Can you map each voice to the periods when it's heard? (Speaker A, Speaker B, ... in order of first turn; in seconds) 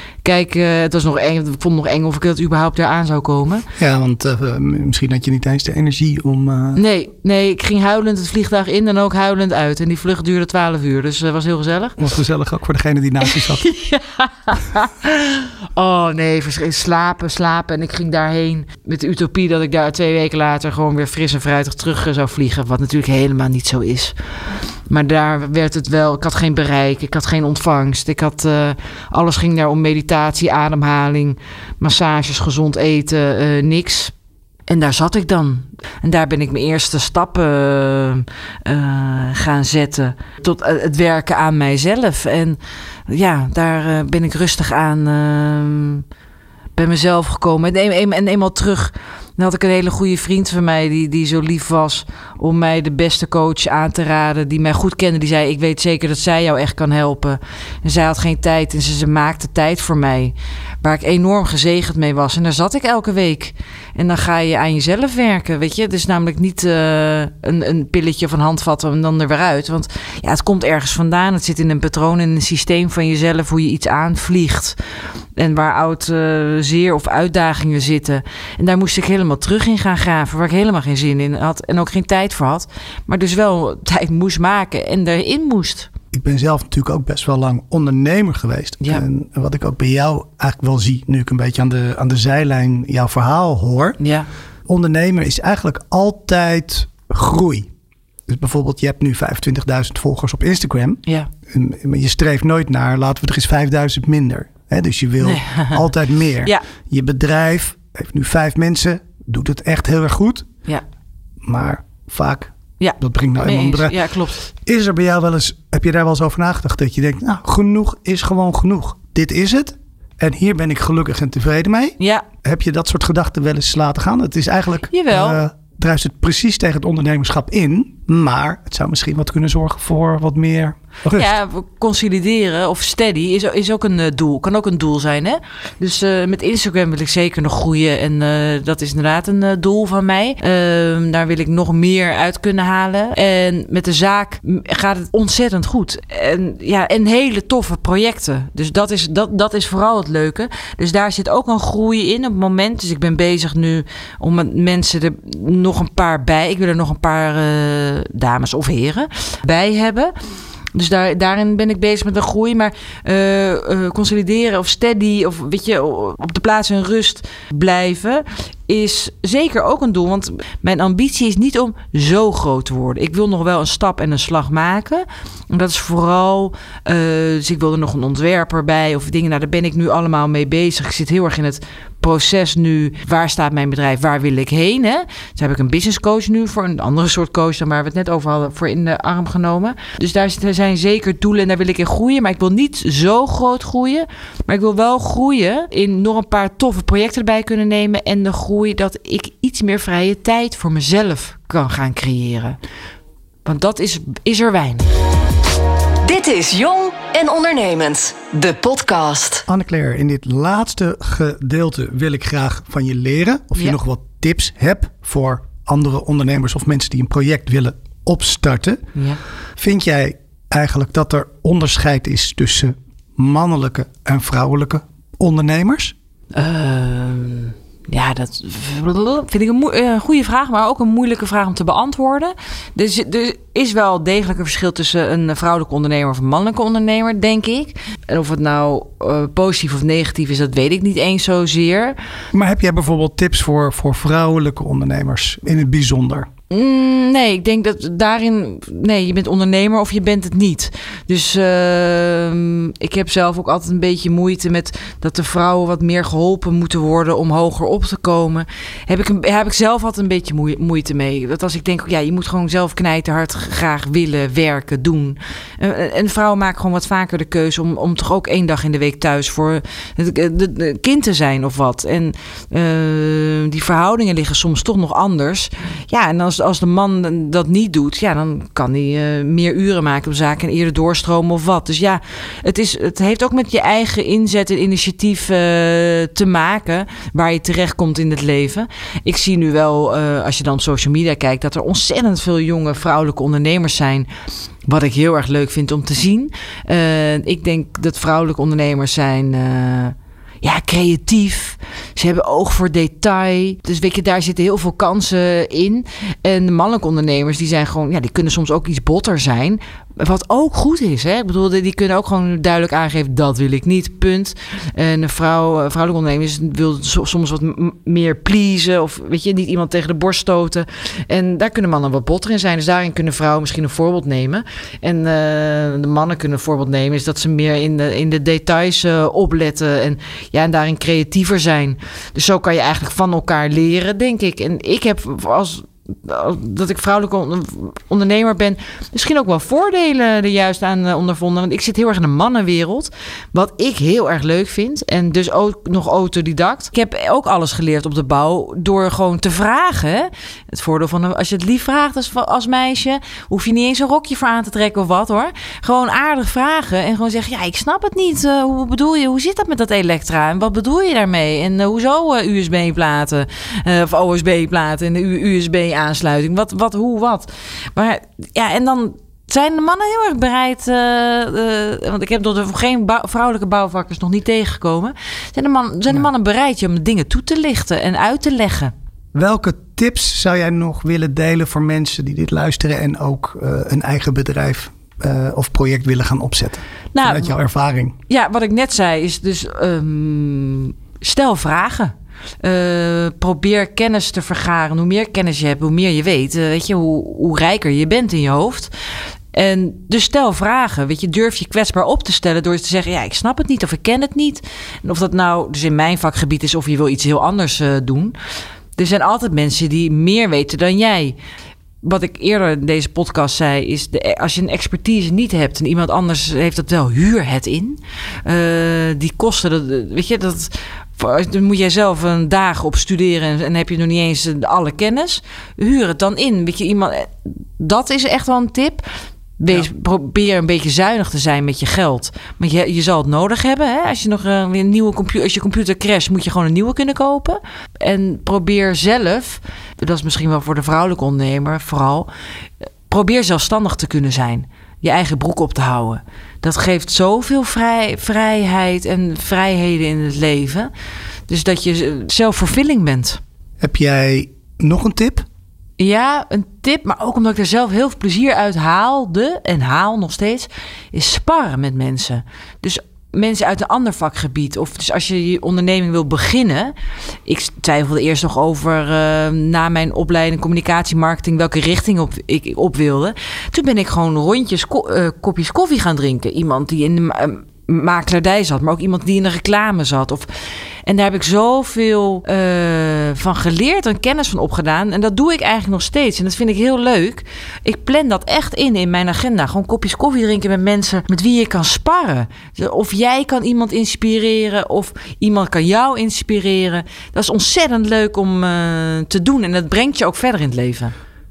Speaker A: 0.2-3.7, 6.7-12.0, 13.3-24.1, 24.9-34.1, 34.7-46.0, 46.8-74.8, 75.4-85.9, 94.0-94.3, 105.2-105.8, 112.8-114.4, 122.0-122.3, 124.9-125.4, 131.1-160.1, 160.7-202.6, 203.4-204.9, 218.9-219.2, 226.3-242.0, 246.5-294.1, 294.7-378.7, 386.9-387.3, 388.1-398.7, 399.3-408.1, 408.8-411.2, 411.8-428.9, 429.4-442.1, 442.9-450.7, 451.3-453.2, 455.8-466.7, 467.3-480.3, 480.9-500.9
Speaker B: 3.8-6.8, 12.0-13.6, 86.1-94.0, 94.7-97.7, 98.3-110.5, 111.4-114.0, 114.5-131.3, 209.5-218.8, 219.6-225.9, 242.3-246.3, 379.1-388.0, 453.6-455.3
Speaker C: 206.0-209.4